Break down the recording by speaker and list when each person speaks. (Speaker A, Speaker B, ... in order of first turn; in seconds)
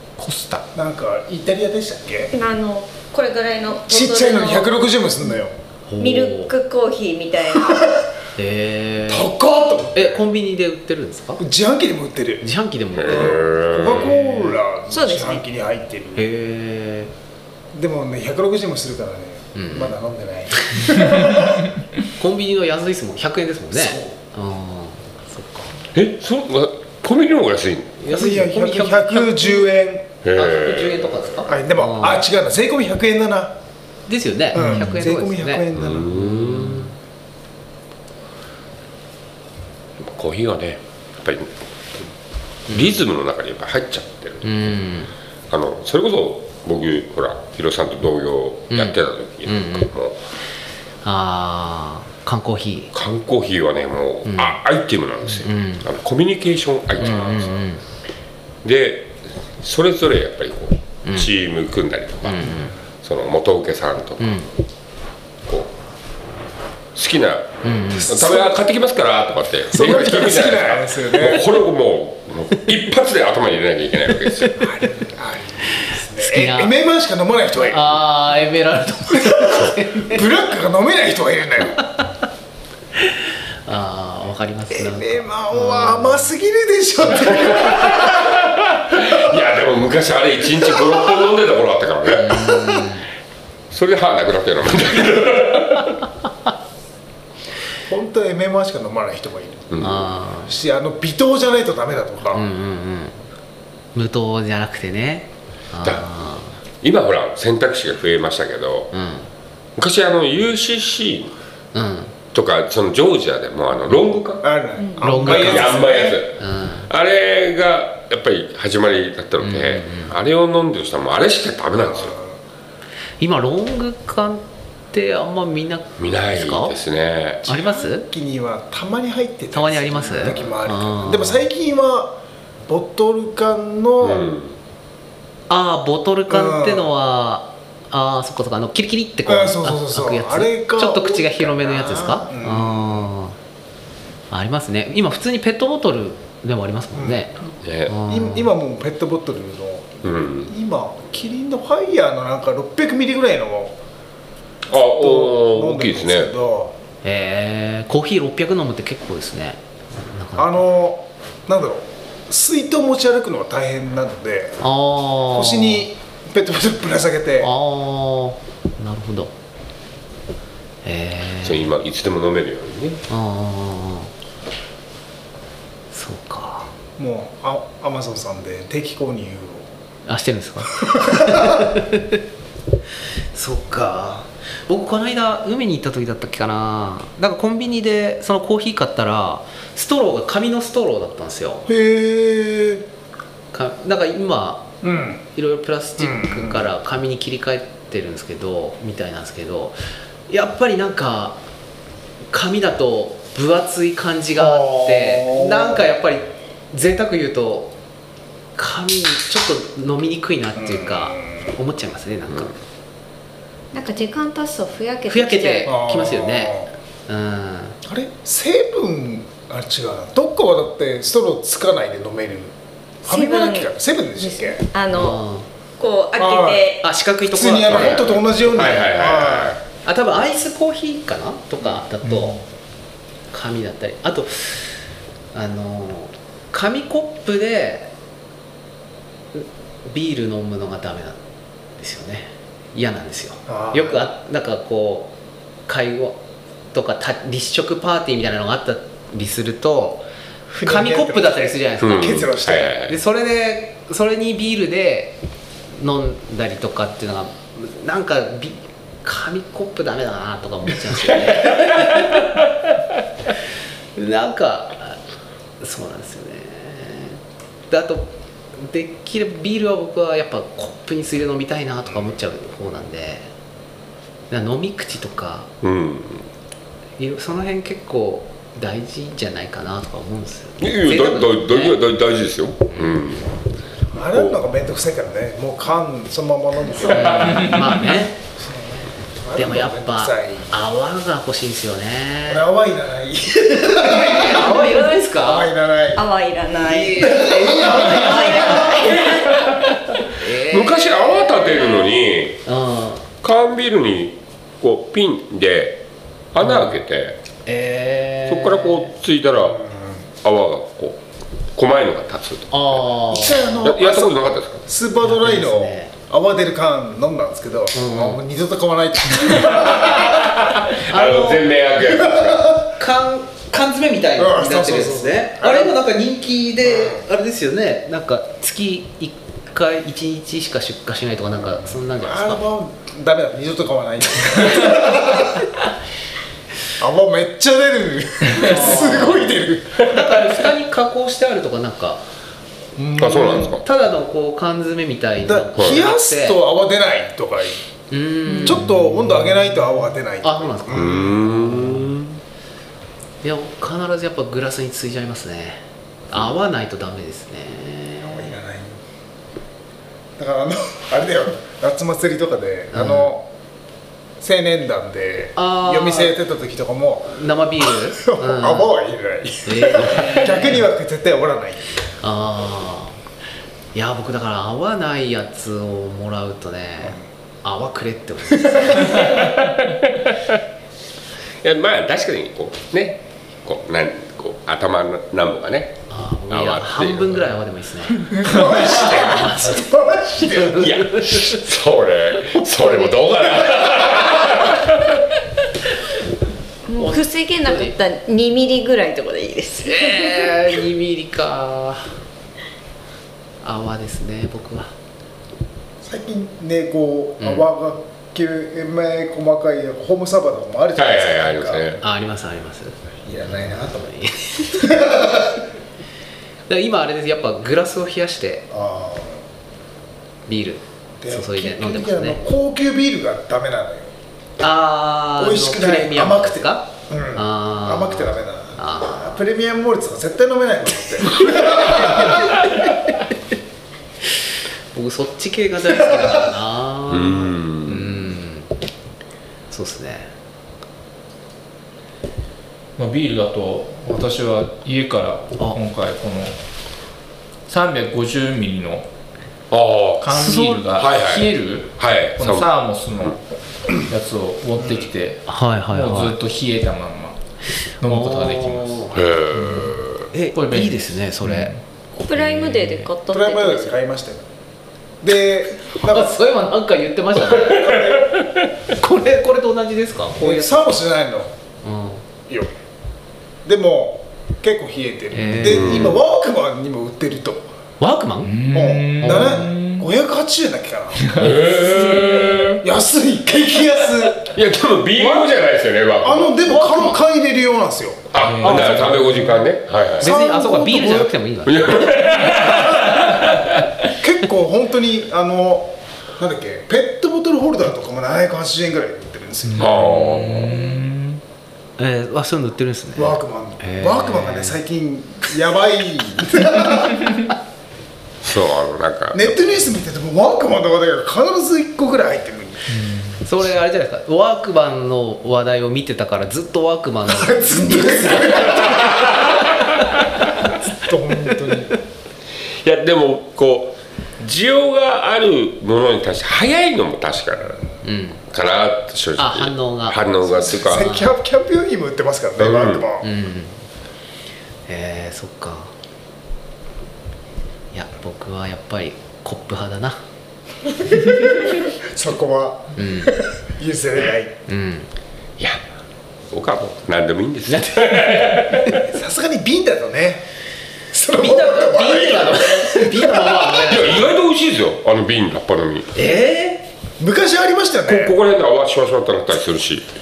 Speaker A: 0.2-0.6, 34.5-35.0, 232.0-232.3, 442.8-446.4, 447.5-448.9, 450.0-457.1, 457.8-458.8, 459.4-459.7, 460.3-461.6, 478.3-479.9, 481.0-481.4, 488.2-489.4, 499.5-501.2, 512.7-513.2
Speaker B: 0.7-2.3, 3.9-5.5, 7.6-8.0, 9.1-10.2, 11.4-12.4, 13.1-16.2, 17.7-21.7, 23.7-24.1, 28.1-30.1, 31.4-33.5, 34.5-36.2, 57.0-57.6, 67.9-68.6, 69.7-71.5, 74.5-78.1, 79.1-81.8, 84.7-88.4, 97.9-99.7, 100.5-102.5, 114.4-116.2, 121.7-122.3, 127.4-134.4, 136.3-136.9, 139.2-143.1, 146.9-147.3, 148.0-153.8, 154.9-156.7, 160.4-164.6, 165.3-167.5, 177.0-179.6, 181.1-181.6, 191.7-192.8, 194.8-195.2, 196.0-196.7, 204.3-205.9, 210.6-211.5, 215.6-216.7, 217.8-222.5, 223.1-224.6, 226.2-226.7, 227.2-229.6, 243.5-244.1, 250.5-252.8, 283.9-287.7, 288.4-290.5, 292.3-296.1, 296.9-298.9, 309.4-310.0, 313.1-320.2, 321.8-322.6, 324.2-325.8, 326.6-327.0, 332.0-335.4, 336.8-340.2, 342.8-343.6, 345.2-347.6, 348.4-351.2, 358.0-358.7, 360.2-363.3, 364.2-371.7, 388.1-390.7, 405.8-411.6, 413.0-413.9, 414.6-415.3, 418.5-419.2, 421.0-423.9, 425.2-432.3, 454.6-454.8, 463.1-464.2, 465.0-466.1, 470.2-471.3, 473.4-477.4, 478.5-481.1, 482.6-484.2, 484.9-485.3, 486.0-488.1, 490.0-491.1, 492.2-493.0, 494.0-499.7, 502.9-507.1, 509.1-512.6, 517.1-519.2, 520.5-521.7, 530.2-533.1, 540.7-544.3, 548.7-550.2, 550.9-553.5, 557.0-558.2
Speaker C: 2.3-4.7, 6.0-7.9, 14.9-15.4, 114.8-115.6, 213.7-215.7, 223.0-225.2, 225.8-226.8, 294.2-294.8, 295.9-299.4, 348.3-348.6, 396.7-400.3, 461.9-463.8
Speaker D: 5.9-6.5, 8.3-9.3, 9.9-11.4, 12.4-14.1, 16.1-17.1, 19.5-19.9, 22.2-25.7, 28.0-29.7, 30.3-32.2, 34.1-36.9, 42.7-43.0, 44.4-45.1, 48.7-49.9, 51.0-52.9, 54.2-54.6, 55.2-55.9, 57.0-57.8, 61.0-61.3, 62.2-62.7, 64.2-64.5, 67.6-68.1, 76.2-76.7, 77.6-80.2, 83.0-86.3, 87.1-87.9, 92.1-93.0, 99.8-100.5, 102.3-103.2, 103.9-106.6, 108.9-109.3, 111.7-112.1, 115.0-115.8, 116.4-116.9, 119.4-120.1, 123.2-126.8, 127.5-128.1, 129.5-131.4, 135.5-143.3, 144.3-148.5, 157.0-160.7, 164.6-165.9, 167.4-169.3, 170.8-171.7, 173.1-174.1, 175.9-176.7, 180.1-182.2, 183.3-191.7, 193.5-199.7, 200.3-201.4, 202.3-207.7, 208.6-212.5, 215.1-217.8, 224.9-225.4, 226.8-229.0, 229.8-232.4, 233.3-234.8, 235.3-237.9, 239.3-241.2, 241.8-245.1, 245.7-246.2, 246.7-252.3, 252.9-255.2, 255.7-262.4, 263.9-265.0, 265.6-273.3, 274.3-275.5, 277.0-281.8, 286.8-288.2, 289.4-292.4, 293.9-295.5, 296.6-299.4, 300.0-301.8, 302.4-303.0, 306.4-306.7, 307.4-308.9, 312.5-313.5, 315.0-315.9, 317.7-318.2, 320.9-321.6, 322.5-332.4, 338.3-342.0, 343.3-346.4, 347.9-349.4, 350.2-351.9, 353.2-358.3, 362.7-363.1, 365.4-366.1, 367.1-368.8, 369.4-370.6, 372.0-373.0, 373.7-379.1, 385.9-391.3, 396.8-397.7, 399.6-401.9, 403.4-404.7, 411.8-415.2, 416.5-418.4, 420.3-422.2, 424.4-429.2, 431.7-432.1, 434.7-438.5, 439.5-440.1, 450.1-450.7, 455.3-456.2, 457.8-459.0, 460.1-461.5, 462.2-462.9, 465.7-468.0, 468.7-470.8, 471.6-472.0, 475.1-476.0, 477.8-478.4, 479.0-479.5, 486.4-487.0, 488.4-488.9, 490.0-492.3, 501.8-504.6, 513.2-518.6, 527.8-528.2, 529.2-530.0, 530.7-531.1, 533.0-533.6, 534.7-535.7, 537.7-540.0, 542.8-543.2, 544.5-544.9, 547.5-548.8, 551.2-554.1, 555.9-556.6
Speaker E: 12.9-14.2, 25.9-28.0, 30.2-31.2, 35.7-36.9, 40.0-42.0, 42.7-44.7, 45.5-50.2, 52.9-57.5, 58.6-64.5, 66.9-67.5, 68.0-74.6, 87.7-92.4, 93.7-96.0, 99.7-100.1, 106.8-108.9, 109.8-111.3, 112.3-114.4, 115.2-122.1, 126.0-127.4, 134.0-134.6, 147.6-147.9, 150.0-150.5, 154.7-156.3, 171.4-173.0, 227.7-229.6, 251.8-252.9, 275.6-276.2, 280.6-283.3, 284.1-284.4, 299.0-299.3, 300.5-302.4, 303.2-307.2, 308.3-309.6, 310.2-311.0, 311.5-313.0, 313.6-314.6, 320.5-322.6, 343.0-343.6, 345.6-345.8, 350.7-352.2, 381.4-387.2, 388.8-389.3, 390.5-395.0, 410.8-411.8, 436.9-438.0, 449.5-450.1, 450.8-452.5, 458.9-460.1, 475.4-476.0, 481.2-482.6, 484.2-486.3, 488.1-490.1, 491.4-492.6, 499.6-500.6, 508.2-509.3, 518.3-519.7, 522.6-527.6, 528.3-530.9, 532.4-532.8, 546.3-548.8, 553.6-555.9, 557.9-559.9